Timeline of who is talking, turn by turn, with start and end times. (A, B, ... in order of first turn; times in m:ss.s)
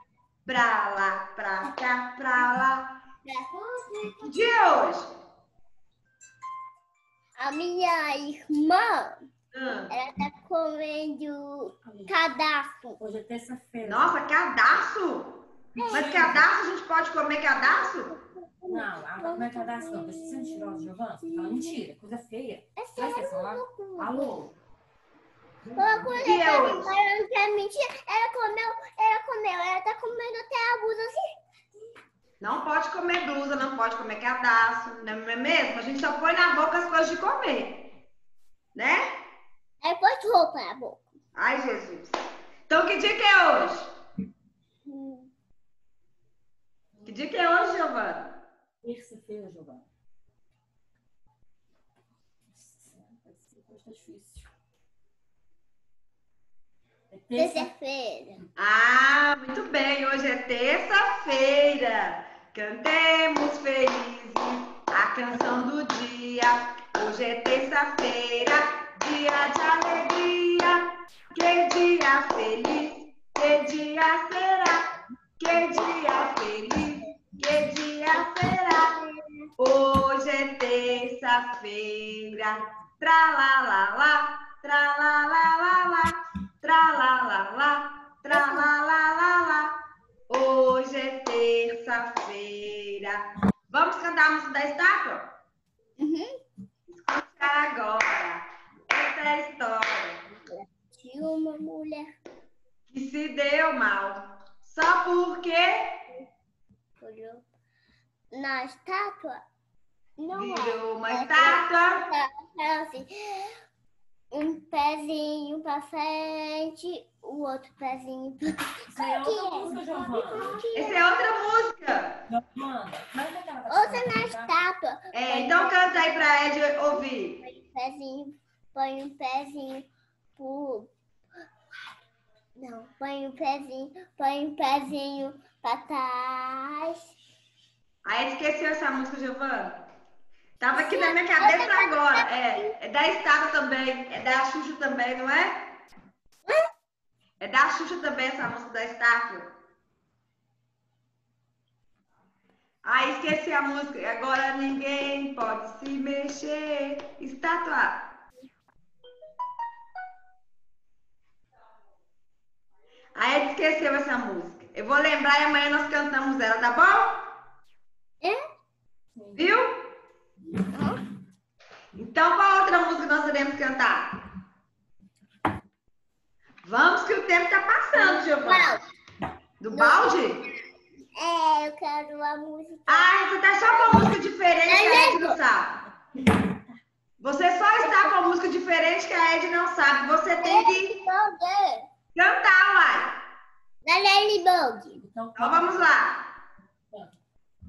0:00.5-0:03.0 A
0:03.2-0:04.4 B
0:04.2-0:05.1 A
0:07.4-0:09.2 B
0:09.5-0:09.9 A
0:09.9-0:13.0 B
0:11.8-0:12.2 C
0:13.0-0:14.3 C
0:13.8-0:18.2 A
0:15.8-0:16.4 B
0:15.8-0:16.5 C
0:17.8-0:21.8 B
0:18.7-0:24.5 C
0:22.8-0:24.4 B
0:25.6-0:26.4 C
0:25.8-0:31.4 B
0:26.2-0:27.0 A
0:32.4-0:37.9 A
0:38.8-0:39.1 A
0:39.8-0:41.0 B
0:41.4-0:42.2 A
0:42.7-0:44.0 A
0:44.8-0:45.3 B
0:47.0-0:48.4 A
0:48.8-0:49.9 C
0:52.5-0:54.5 C
0:57.1-0:57.7 C
0:57.4-0:58.4 B
0:58.6-1:14.9 A
1:15.4-1:19.0 A
1:15.6-1:15.9 B
1:18.2-1:19.5 B
1:19.6-1:29.7 A
1:28.3-1:28.7 B
1:30.3-1:35.3 A
1:36.0-1:36.4 B
1:36.9-1:40.2 A
1:40.5-1:42.1 B
1:42.9-1:46.0 A
1:47.0-1:47.5 B
1:48.3-1:49.4 B
1:50.2-1:53.6 B
1:50.3-1:52.0 A
1:54.3-2:01.3 B
1:58.9-2:00.6 C
2:00.8-2:02.2 A
2:02.3-2:04.6 C
2:03.7-2:06.2 B
2:05.1-2:07.4 A
2:07.4-2:10.9 B
2:12.6-2:17.0 B
2:18.0-2:19.8 A
2:20.6-2:25.8 A
2:20.7-2:22.7 B
2:27.4-2:29.5 A
2:32.8-2:38.0 A
2:43.2-2:47.3 A
2:49.1-2:49.5 C
2:49.4-2:49.8 A
2:50.6-2:51.0 B
2:52.0-2:54.1 A
2:56.6-2:58.8 A
2:57.9-2:58.8 B
2:59.6-3:00.4 A
2:59.7-3:00.6 B
3:01.2-3:05.4 B
3:02.9-3:05.8 A
3:07.2-3:11.0 A
3:07.8-3:08.2 B
3:10.4-3:11.9 B
3:12.2-3:13.2 A
3:13.8-3:15.0 B
3:15.0-3:15.9 C
3:15.4-3:16.3 A